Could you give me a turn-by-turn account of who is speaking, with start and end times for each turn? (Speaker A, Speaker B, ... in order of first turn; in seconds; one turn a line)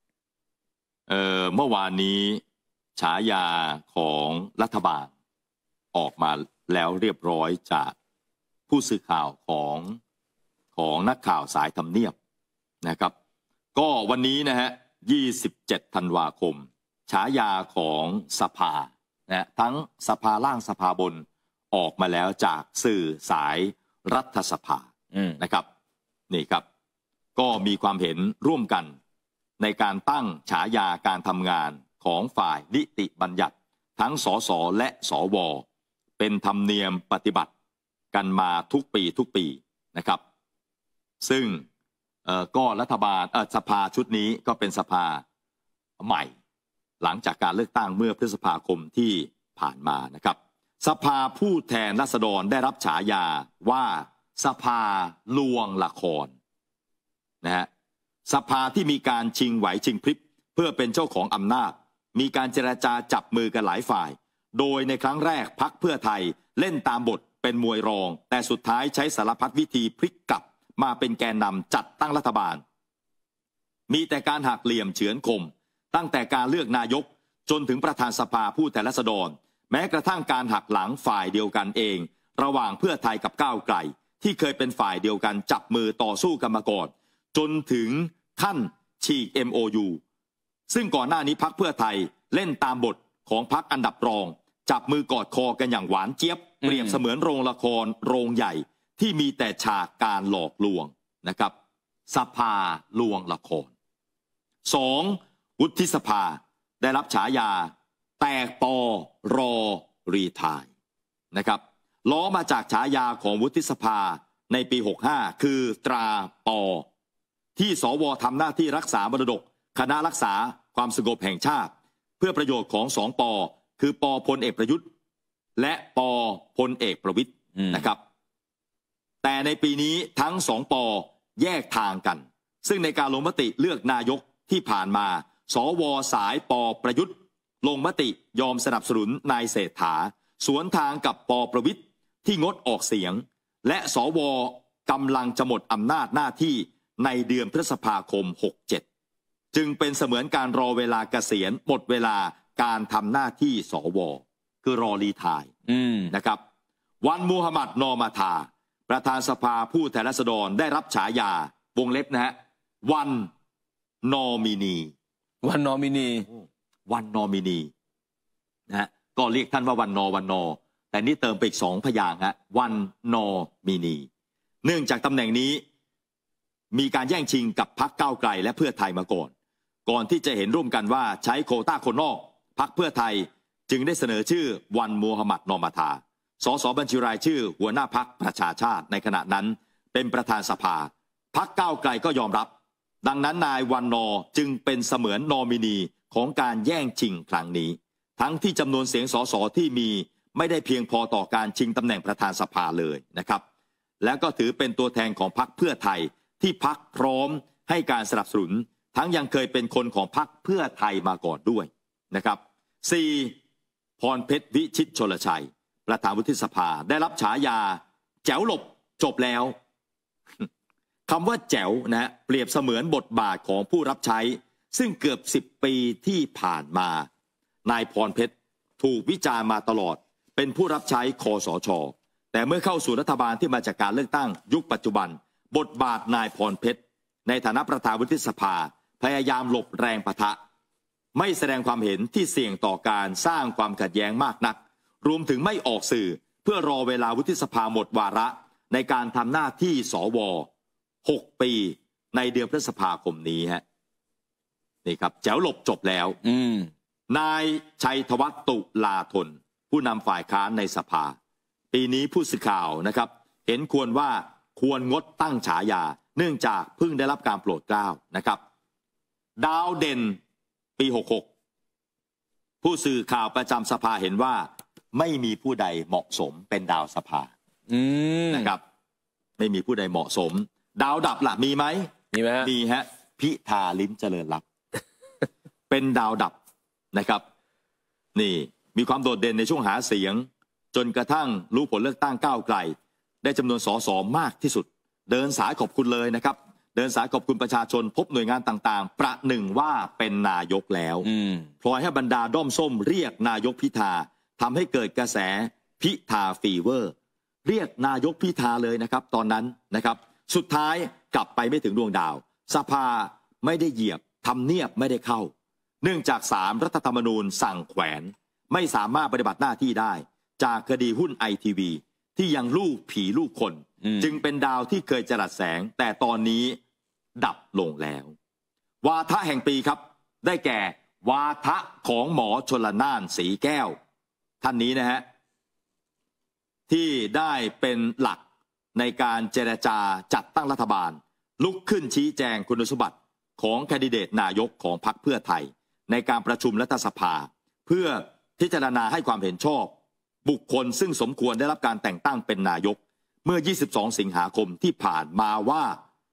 Speaker A: 1.1-2.4
Speaker A: 3.0-5.1
Speaker A: 5.9-7.9
Speaker A: 8.7-10.0
Speaker A: 10.8-12.1
Speaker A: 12.8-13.1
Speaker A: 13.7-25.6
Speaker A: 26.3-26.6
Speaker A: 27.4-28.9
Speaker A: 29.6-35.6
Speaker A: 36.2-37.5
Speaker A: 38.1-40.2
Speaker A: 41.2-41.6
Speaker A: 42.2-45.2
Speaker A: 46.0-46.3
Speaker A: 47.0-56.3
Speaker A: 57.4-57.7
Speaker A: 58.2-72.6
Speaker A: 73.9-90.0
Speaker A: 90.7-101.5
Speaker B: 96.6-97.0
Speaker A: 102.1-103.7
Speaker A: 104.6-110.7
Speaker A: 111.3-116.8
Speaker A: 117.5-124.8
Speaker A: 125.6-128.0
Speaker B: 127.6-127.8
Speaker A: 129.2-148.8
Speaker A: 149.5-155.5
Speaker B: 155.7-156.1
Speaker A: 156.1-156.4
Speaker A: 157.0-163.3
Speaker A: 164.0-164.9
Speaker B: 165.4-166.3
Speaker A: 166.9-167.7
Speaker A: 168.7-174.1
Speaker A: 174.6-175.6
Speaker A: 176.7-179.3
Speaker A: 179.8-192.5
Speaker A: 193.0-203.4
Speaker A: 204.0-213.3
Speaker A: 214.0-219.5
Speaker A: 221.1-227.1
Speaker A: 227.7-240.4
Speaker A: 241.1-250.5
Speaker A: 251.0-253.6
Speaker A: 254.8-256.2
Speaker B: 256.2-256.7
Speaker A: 257.1-261.1
Speaker A: 261.7-268.4
Speaker A: 269.4-270.2
Speaker A: 270.8-271.3
Speaker A: 272.6-277.3
Speaker B: 277.7-278.5
Speaker A: 278.3-278.6
Speaker A: 279.4-281.9
Speaker B: 282.1-282.5
Speaker A: 282.4-284.4
Speaker A: 285.7-286.3
Speaker A: 286.9-287.2
Speaker A: 288.1-301.1
Speaker B: 301.0-301.5
Speaker A: 301.6-306.9
Speaker A: 307.4-326.6
Speaker A: 327.2-328.1
Speaker A: 328.8-333.8
Speaker A: 334.4-335.0
Speaker A: 336.7-338.2
Speaker A: 338.8-349.7
Speaker A: 350.2-355.8